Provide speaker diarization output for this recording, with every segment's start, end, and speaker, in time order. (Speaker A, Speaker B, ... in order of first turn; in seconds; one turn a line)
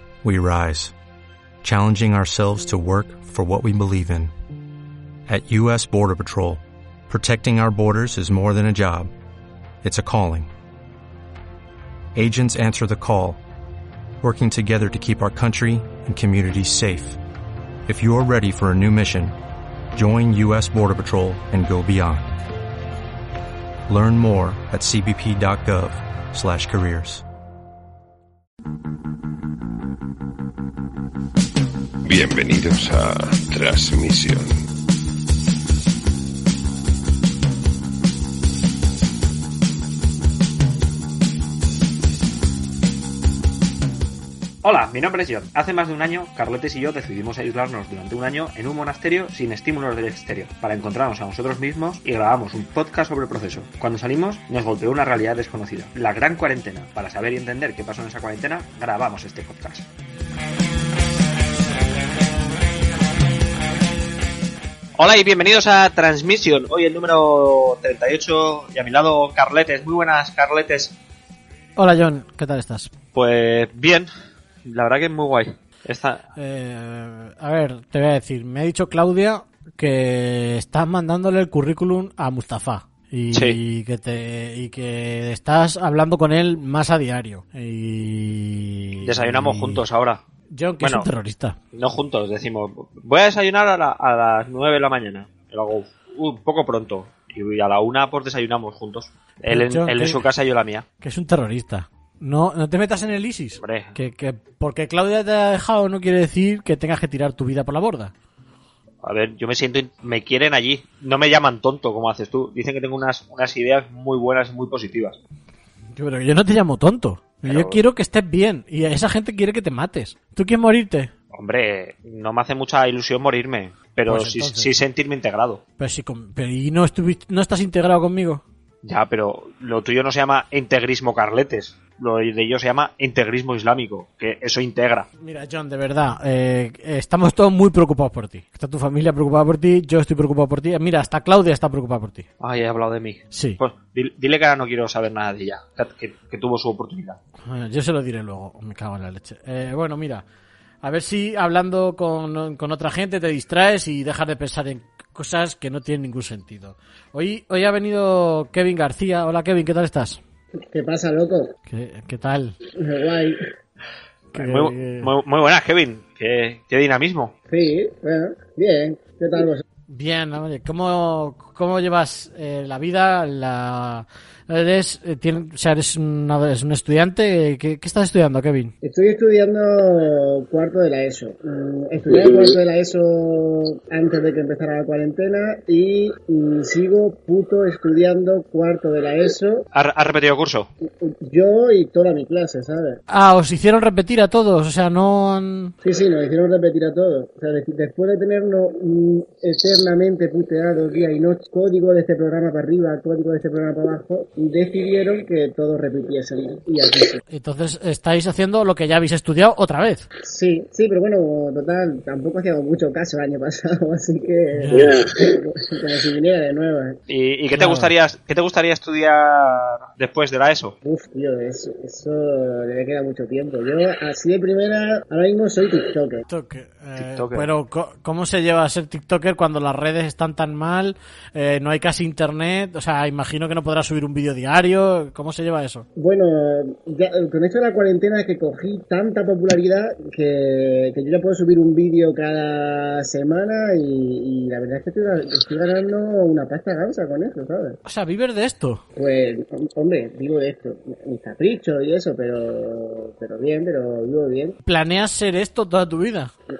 Speaker A: 0.2-0.9
Speaker A: 1.6-4.3
Speaker A: 5.3-9.1
Speaker A: 9.8-10.5
Speaker A: 12.1-13.4
Speaker A: 14.2-17.2
Speaker A: 17.9-19.3
Speaker A: 19.9-22.3
Speaker A: 23.9-27.2
Speaker B: 32.0-34.6
Speaker C: 44.6-59.9
Speaker C: 65.0-70.9
Speaker D: 71.8-72.9
Speaker C: 73.1-74.1
Speaker C: 74.6-76.2
Speaker D: 76.3-89.8
Speaker C: 83.3-83.6
Speaker C: 89.0-90.2
Speaker D: 90.5-91.6
Speaker C: 90.8-91.1
Speaker C: 91.7-100.8
Speaker D: 99.5-100.2
Speaker D: 101.0-108.1
Speaker C: 103.6-103.9
Speaker C: 109.0-115.2
Speaker D: 116.0-121.1
Speaker C: 117.4-117.8
Speaker C: 121.3-125.6
Speaker D: 124.1-124.7
Speaker D: 125.8-128.4
Speaker C: 128.8-135.1
Speaker D: 135.2-142.2
Speaker C: 142.4-147.2
Speaker D: 143.3-143.6
Speaker D: 147.4-150.2
Speaker D: 150.8-160.2
Speaker E: 160.7-161.5
Speaker D: 161.7-162.6
Speaker E: 162.8-163.4
Speaker D: 164.3-165.1
Speaker C: 164.3-167.3
Speaker E: 167.5-169.6
Speaker D: 169.9-178.7
Speaker E: 178.8-189.7
Speaker C: 189.7-190.7
Speaker E: 190.8-193.0
Speaker D: 193.1-195.7
Speaker E: 195.8-207.2
Speaker D: 207.3-210.1
Speaker E: 210.2-217.0
Speaker D: 214.6-215.0
Speaker C: 217.1-220.8
Speaker D: 217.5-217.9
Speaker E: 220.8-226.2
Speaker D: 226.3-235.8
Speaker C: 227.0-227.5
Speaker E: 235.9-247.8
Speaker D: 247.8-248.8
Speaker E: 248.9-254.6
Speaker D: 254.6-256.3